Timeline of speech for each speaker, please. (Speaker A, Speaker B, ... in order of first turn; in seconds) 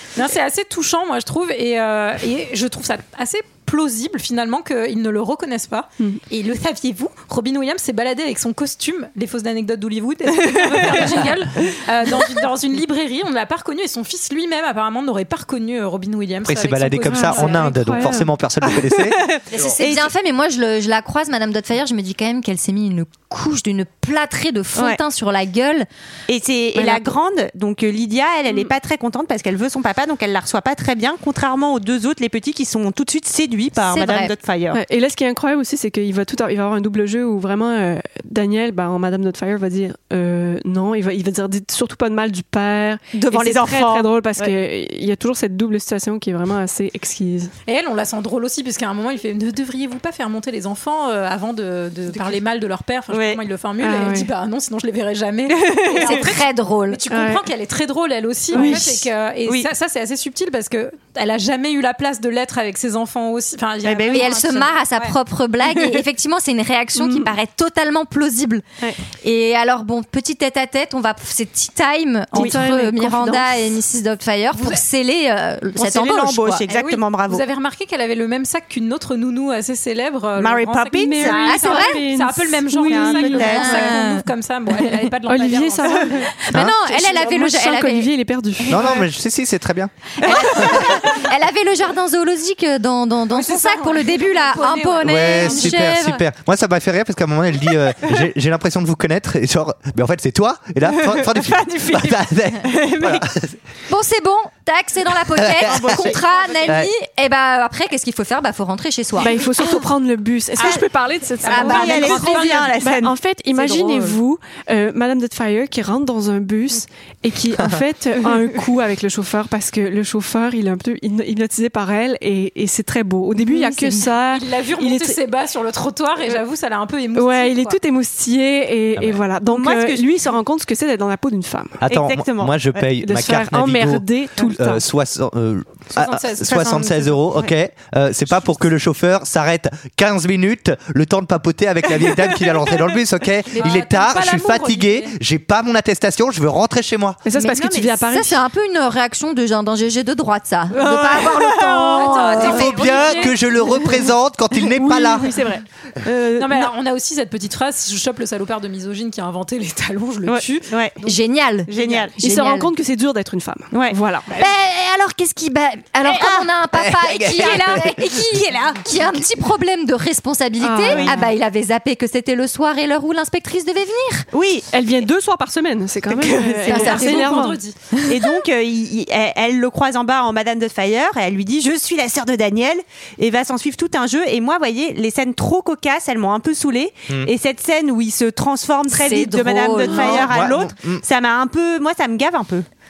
Speaker A: 0.1-18.1, 47.6-65.1, 76.7-86.3, 93.4-95.8, 111.4-112.5, 124.3-127.8, 135.9-137.2, 143.5-145.1, 151.9-153.6, 156.4-161.1, 161.7-162.1, 176.6-177.8
Speaker B: 10.9-11.2, 16.4-19.2, 88.7-89.9, 95.0-103.5, 105.3-106.1, 131.8-147.2, 152.4-155.4, 166.7-168.2, 190.0-191.0
Speaker C: 17.1-18.3, 34.7-47.5, 53.8-54.3, 57.1-57.4, 58.5-59.0, 67.0-67.3, 72.3-73.8, 81.0-83.7, 85.3-88.8, 109.2-125.2, 127.1-131.8, 133.0-134.8, 147.2-148.4, 153.7-156.7, 162.2-164.3, 170.6-171.3, 174.7-177.6
Speaker D: 18.7-20.1, 26.3-34.8, 43.1-44.5, 53.1-53.4, 55.5-56.2, 58.5-58.8, 63.8-64.3, 75.8-77.4, 80.4-81.6, 82.9-83.9, 90.3-91.2, 100.9-103.3, 105.7-106.7, 111.5-114.2, 129.5-130.1, 131.9-132.8, 136.5-136.9, 142.0-142.7, 147.5-147.9, 150.7-152.1, 160.3-160.9, 161.7-162.2, 163.7-164.0, 166.1-166.5, 167.4-167.8, 170.9-171.2, 174.3-174.7, 176.1-176.7, 178.1-192.7
Speaker E: 19.5-25.9, 26.8-27.1, 33.8-34.3, 56.0-57.0, 64.1-68.6, 69.2-76.6, 81.4-82.0, 83.2-84.2, 86.4-88.1, 90.2-96.2, 103.9-109.4, 111.5-112.5, 123.4-124.1, 147.4-153.3, 161.0-161.7, 162.2-162.7, 164.3-174.3, 176.7-177.4, 188.9-190.3